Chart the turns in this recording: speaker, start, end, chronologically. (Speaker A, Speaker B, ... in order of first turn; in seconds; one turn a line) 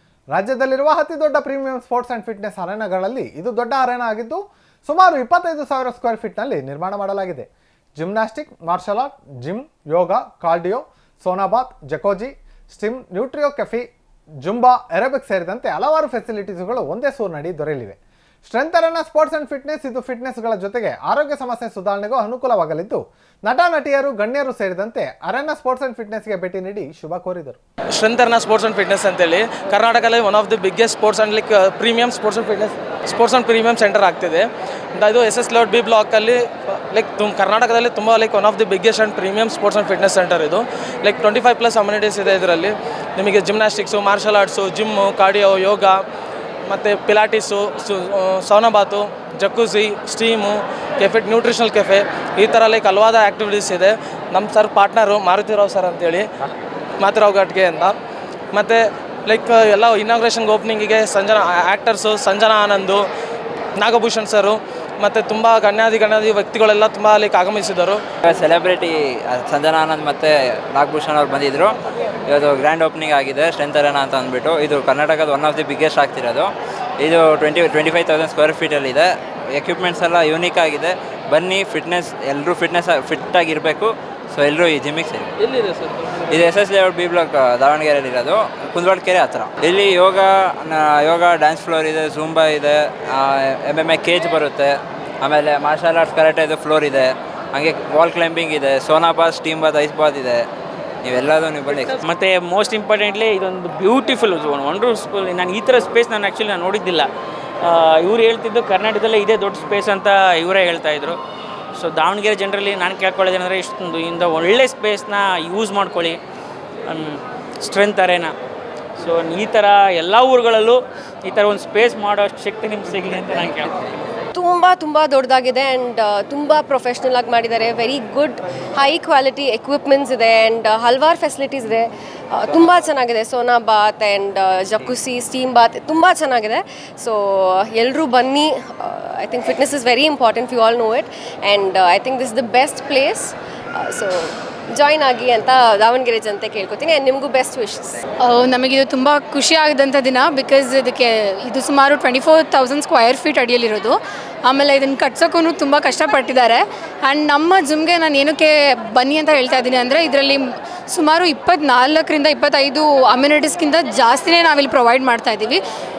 Speaker A: 0.3-13.9
Speaker A: 14.4-27.6
Speaker B: 28.0-46.0
Speaker B: 46.7-56.3
Speaker B: 57.0-58.0
Speaker B: 58.5-63.0
Speaker B: 63.8-68.0
Speaker C: 68.2-71.8
Speaker C: 72.3-85.3
Speaker C: 86.3-100.5
Speaker C: 101.0-102.0
Speaker D: 102.0-107.1
Speaker D: 107.6-111.2
Speaker D: 111.8-116.2
Speaker D: 116.9-118.3
Speaker D: 119.0-123.8
Speaker E: 124.3-148.0
Speaker C: 132.4-133.0
Speaker C: 134.7-135.0
Speaker F: 148.2-165.6